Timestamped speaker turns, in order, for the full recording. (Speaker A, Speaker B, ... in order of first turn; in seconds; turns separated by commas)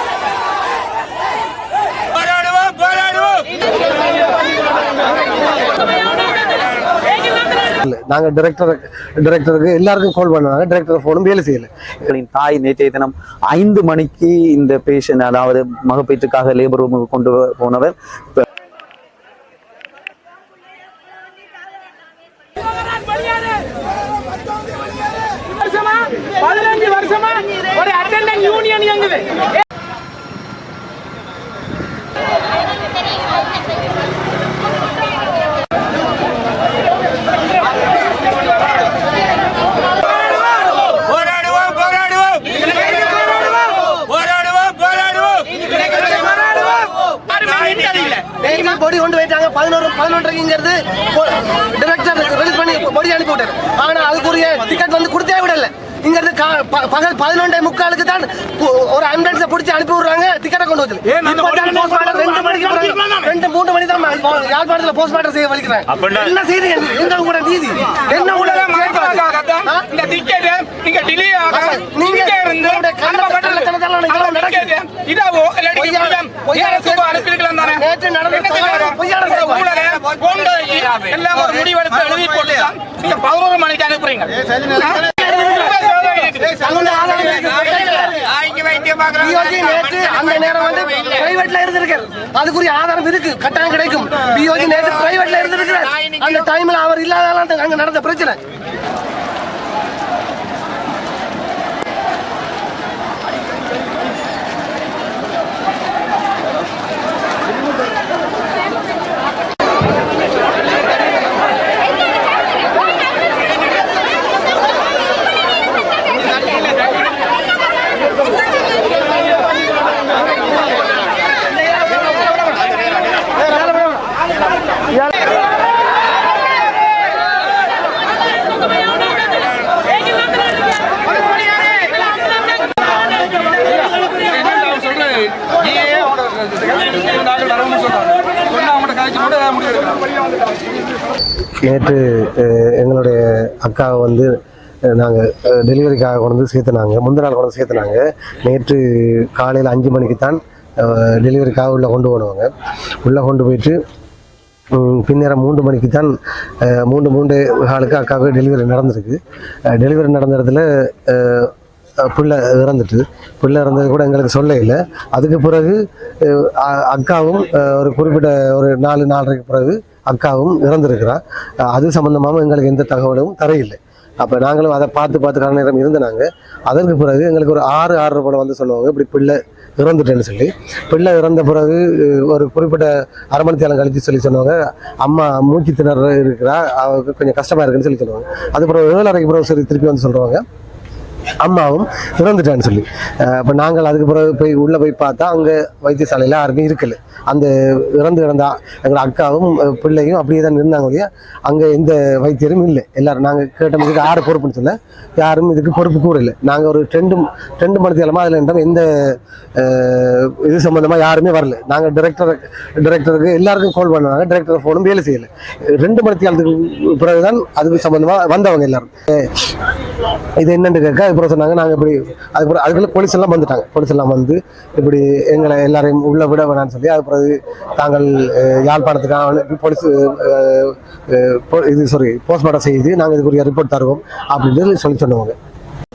Speaker A: 7.8-11.7, Speaker B: 12.1-18.4, Speaker C: 45.1-70.5, Speaker D: 70.3-71.3, Speaker C: 71.2-80.3, Speaker D: 75.2-75.5, Speaker D: 80.0-84.4, Speaker C: 84.7-88.3, Speaker C: 88.9-98.4, Speaker D: 137.3-138.0, Speaker D: 138.9-139.6, Speaker A: 141.6-144.3, Speaker A: 144.9-152.5, Speaker A: 153.0-153.8, Speaker A: 154.7-156.1, Speaker A: 156.7-161.5, Speaker A: 162.0-171.2, Speaker A: 171.7-190.4, Speaker A: 191.4-219.4, Speaker A: 220.4-235.3